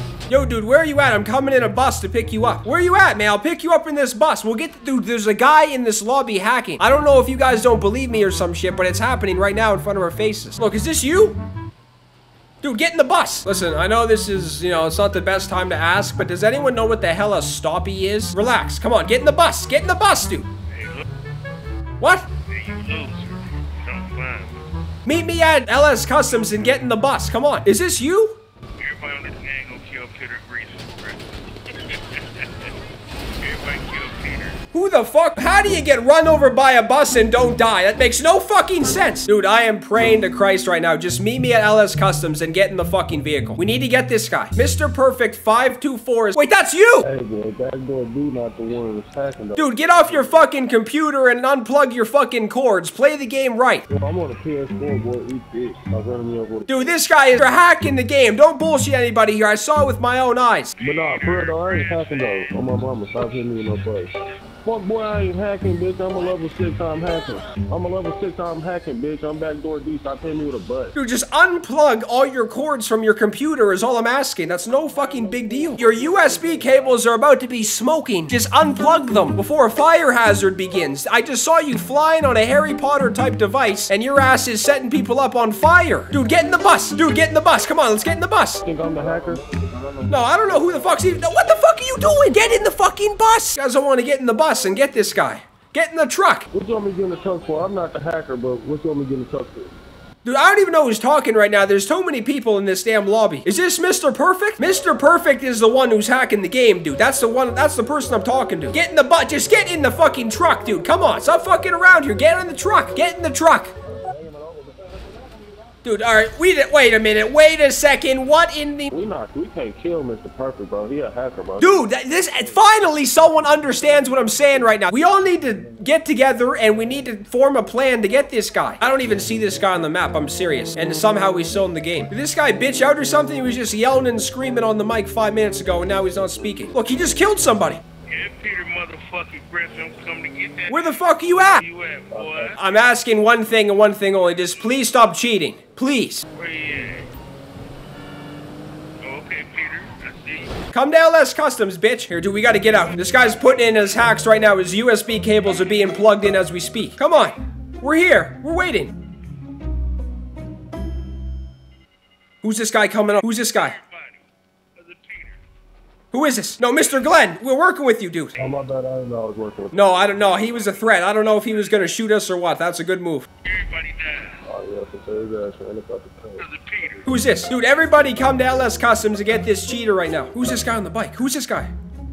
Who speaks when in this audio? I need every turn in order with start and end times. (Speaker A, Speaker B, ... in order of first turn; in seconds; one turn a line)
Speaker A: 0.3-11.4
Speaker A: 12.6-20.5
Speaker B: 20.7-21.0
Speaker A: 22.0-22.3
Speaker B: 22.5-24.6
Speaker A: 25.1-28.4
Speaker B: 28.8-32.7
Speaker B: 33.4-34.6
Speaker A: 34.7-47.1
Speaker C: 47.0-50.5
Speaker A: 49.5-53.8
Speaker C: 53.9-57.0
Speaker A: 56.7-60.7
Speaker B: 60.8-62.5
Speaker C: 60.8-71.0
Speaker A: 70.9-88.6
Speaker C: 88.6-90.0
Speaker A: 90.1-96.5
Speaker C: 90.6-91.0
Speaker C: 96.5-99.7
Speaker A: 100.2-113.7
Speaker C: 114.0-115.3
Speaker A: 115.8-118.9
Speaker C: 118.9-121.8
Speaker A: 121.6-137.8
Speaker B: 138.1-142.6
Speaker A: 140.7-141.7
Speaker C: 142.1-142.6
Speaker A: 142.6-146.2
Speaker B: 146.3-147.1
Speaker B: 149.0-150.5
Speaker A: 150.7-158.9
Speaker A: 162.4-163.8
Speaker B: 163.6-164.2
Speaker B: 164.8-165.4
Speaker A: 166.1-168.3
Speaker C: 168.4-170.2
Speaker A: 169.7-173.3
Speaker B: 173.4-174.4
Speaker C: 174.4-176.4
Speaker B: 176.4-177.0
Speaker A: 177.0-181.7